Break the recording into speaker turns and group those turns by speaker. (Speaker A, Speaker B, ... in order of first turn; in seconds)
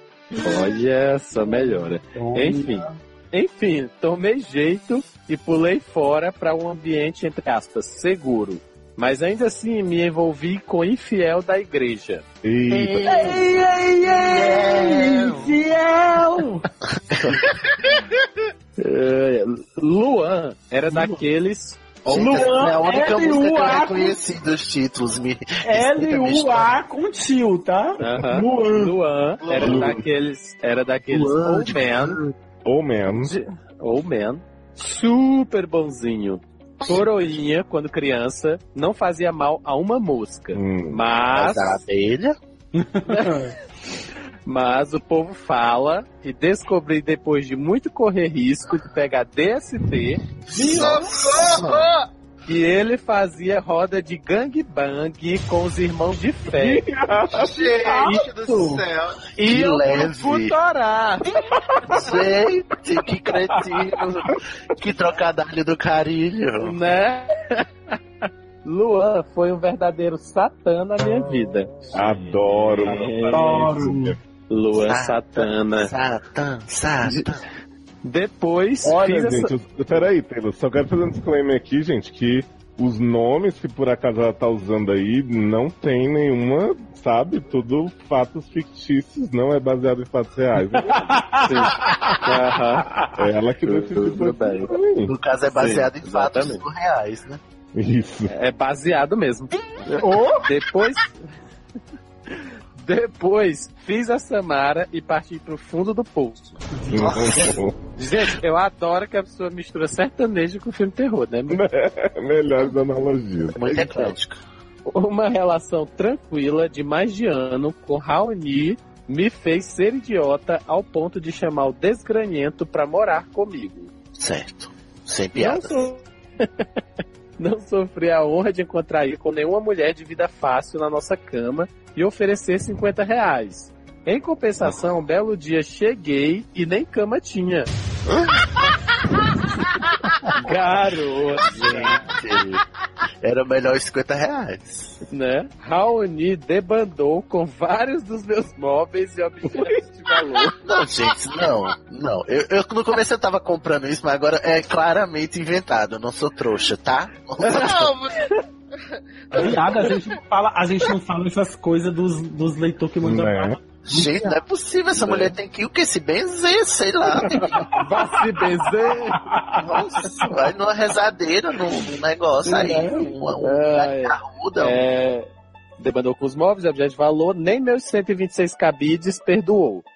Speaker A: 0.3-0.7, 1.3-3.0, 12.9-16.6, 20.9-21.2, 22.1-24.2, 25.6-28.8, 42.7-43.5, 50.5-51.3, 57.7-58.8, 73.3-74.2, 90.7-92.2, 99.9-100.5, 106.8-107.3, 159.3-164.3, 167.6-168.1, 169.1-169.8, 172.4-173.1
Speaker B: 0.4-12.2, 18.8-22.5, 28.0-32.2, 33.2-41.8, 43.1-43.4, 44.5-50.2, 52.5-56.8, 58.0-58.7, 59.3-61.4, 66.6-73.7, 74.5-75.9, 78.0-79.5, 91.4-92.9, 93.6-94.8, 95.5-96.6, 98.3-101.2, 102.3-106.6, 107.9-111.6, 113.7-114.1, 114.8-123.9, 125.3-126.7, 127.4-137.7, 140.3-142.1, 145.1-150.6, 165.0-165.3, 167.8-169.2, 173.4-179.8
Speaker C: 12.4-13.4, 29.6-30.0, 32.6-33.3, 40.5-41.0, 56.5-57.7, 71.9-74.2, 78.8-91.2, 93.2-95.1, 97.7-98.3, 106.9-107.8, 111.5-113.7, 163.0-163.6
Speaker D: 14.3-15.3, 17.1-17.4, 22.0-26.7, 29.6-29.9, 31.1-32.3, 41.3-42.4, 50.6-51.9, 59.4-60.5, 61.9-66.8, 74.7-77.4, 95.0-97.4, 107.0-107.6, 113.5-114.4, 124.2-125.9, 138.1-138.5, 141.4-142.6, 143.2-145.0, 150.6-157.9, 163.8-167.7, 169.6-174.8
Speaker E: 29.4-29.8, 50.6-52.0, 57.3-59.2, 157.5-158.2